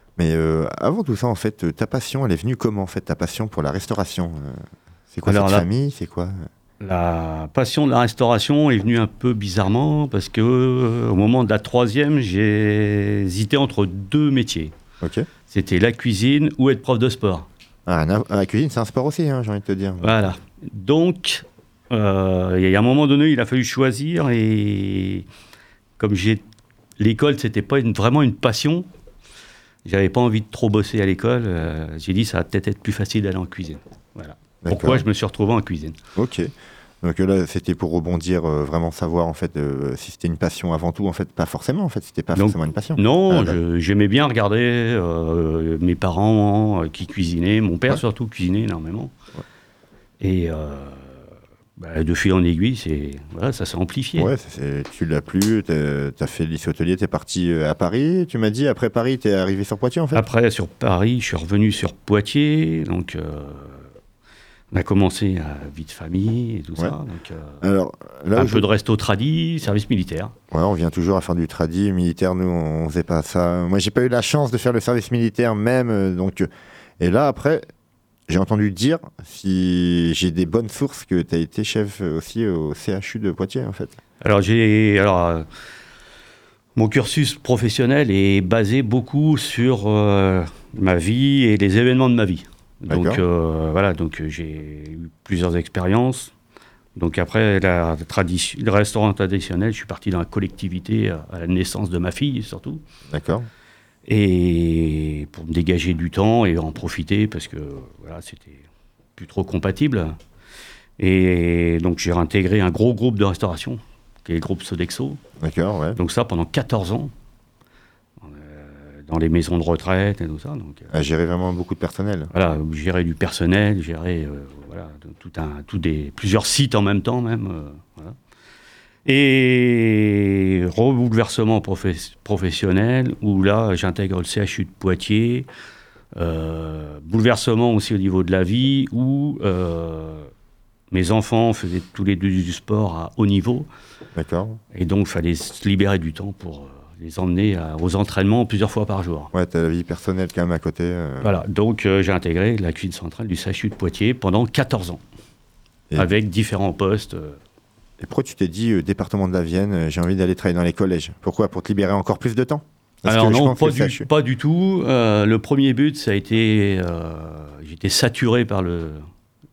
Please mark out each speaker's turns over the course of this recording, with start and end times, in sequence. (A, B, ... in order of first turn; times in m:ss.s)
0:00.2-0:06.4 A
0:05.2-0:05.6 B
0:06.8-0:14.7 B
0:15.0-0:15.3 A
0:15.5-0:17.5 B
0:17.8-0:20.3 A
0:20.0-0:25.2 B
0:26.0-0:26.4 B
0:27.0-0:28.9 B
0:29.8-0:36.0 B
0:34.6-0:35.0 A
0:36.2-0:43.6 A
0:42.4-0:49.1 B
0:50.2-0:51.2 B
0:51.8-0:54.3 B
0:54.2-1:00.2 A
1:00.1-1:03.9 B
1:04.7-1:07.6 B
1:07.6-1:08.7 A
1:08.3-1:10.3 B
1:10.5-1:17.7 A
1:18.3-1:23.9 A
1:24.2-1:25.4 B
1:26.8-1:36.3 B
1:32.9-1:33.2 A
1:37.0-1:42.8 B
1:43.1-1:43.5 A
1:44.0-1:48.6 B
1:49.2-1:50.2 B
1:51.0-1:55.2 B
1:55.4-1:56.0 A
1:56.0-1:57.1 B
1:58.2-2:00.9 B
2:00.9-2:02.3 A
2:02.3-2:08.2 B
2:09.0-2:15.5 B
2:16.2-2:20.3 B
2:20.9-2:23.7 B
2:24.1-2:24.6 A
2:24.7-2:29.3 B
2:29.3-2:31.3 A
2:31.2-2:35.0 B
2:36.0-2:37.4 B
2:38.0-2:44.1 A
2:43.1-2:49.0 B